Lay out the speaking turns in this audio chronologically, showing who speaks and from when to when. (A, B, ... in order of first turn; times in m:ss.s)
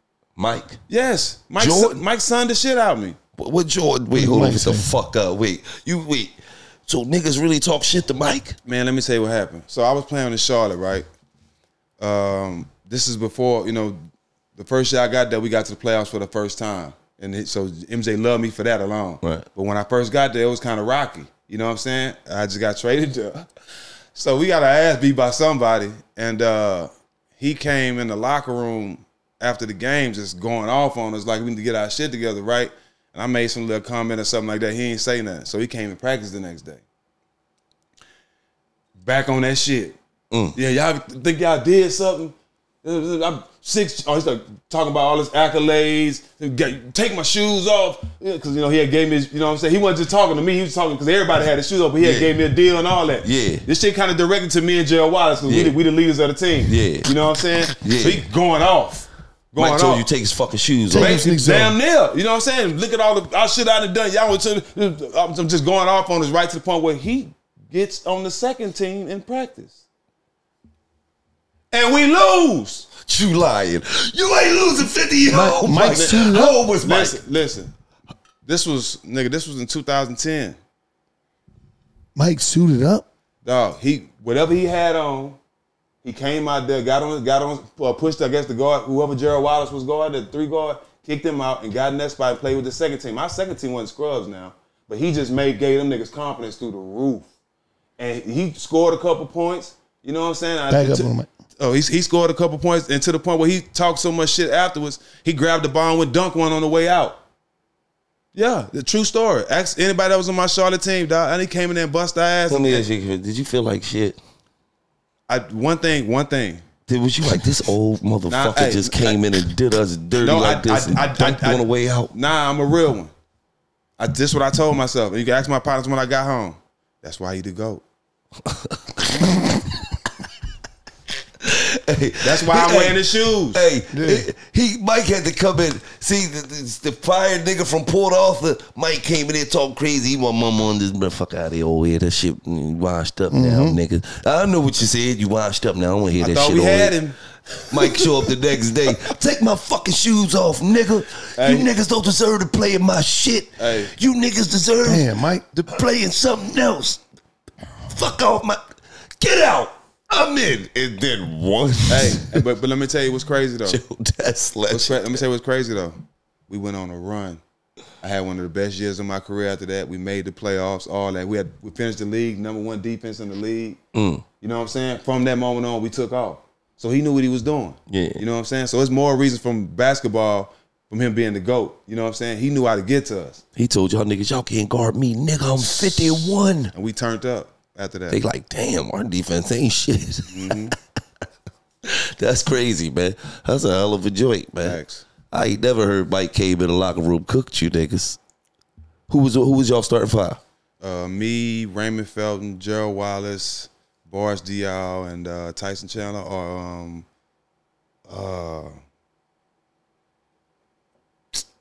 0:00.4-0:00.8 A
0:00.9-0:03.2 B
0:01.6-0:02.0 A
0:03.4-0:06.4 A
0:04.1-0:04.9 C
0:06.9-0:08.6 A
0:08.6-0:11.1 B
0:12.0-0:14.0 B
0:14.6-0:23.5 B
0:24.1-0:36.8 B
0:39.0-0:40.0 B
0:40.5-1:00.1 B
0:52.0-0:52.4 A
0:53.2-0:53.7 A
0:55.5-0:55.8 A
0:56.7-0:57.2 A
0:57.7-0:58.2 A
0:59.6-1:01.2 A
1:00.9-1:01.8 C
1:00.9-1:09.8 B
1:11.7-1:12.9 B
1:13.0-1:17.2 A
1:15.3-1:16.6 C
1:15.8-1:16.2 B
1:16.7-1:17.7 B
1:18.4-1:20.6 B
1:22.2-1:23.1 C
1:23.4-1:25.4 B
1:26.0-1:37.3 B
1:38.0-1:47.2 B
1:40.7-1:41.3 C
1:48.3-1:52.9 B
1:52.5-1:54.2 A
1:55.3-1:56.6 B
1:56.9-2:02.1 A
1:58.3-1:59.2 B
2:00.1-2:03.1 B
2:04.0-2:07.8 B
2:08.5-2:09.6 A
2:11.4-2:27.0 A
2:12.2-2:13.6 B
2:13.9-2:14.3 C
2:23.3-2:23.8 C
2:26.2-2:27.2 B
2:27.7-2:37.0 A
2:31.4-2:31.7 B
2:33.6-2:33.9 B
2:34.8-2:35.7 C
2:37.9-2:38.6 A
2:39.2-2:42.4 A
2:41.9-2:43.8 B
2:43.6-2:45.2 A
2:44.7-2:46.0 B
2:46.5-2:47.4 B
2:48.0-2:53.8 B
2:53.9-2:54.2 A
2:54.4-3:03.4 B
2:57.9-2:58.2 A
3:03.6-3:06.7 A
3:05.6-3:08.2 B
3:08.1-3:10.5 A
3:10.3-3:10.8 B
3:12.2-3:14.8 A
3:14.6-3:15.0 B
3:15.3-3:18.2 A
3:19.1-3:20.4 A
3:20.8-3:27.1 B
3:28.1-3:28.8 B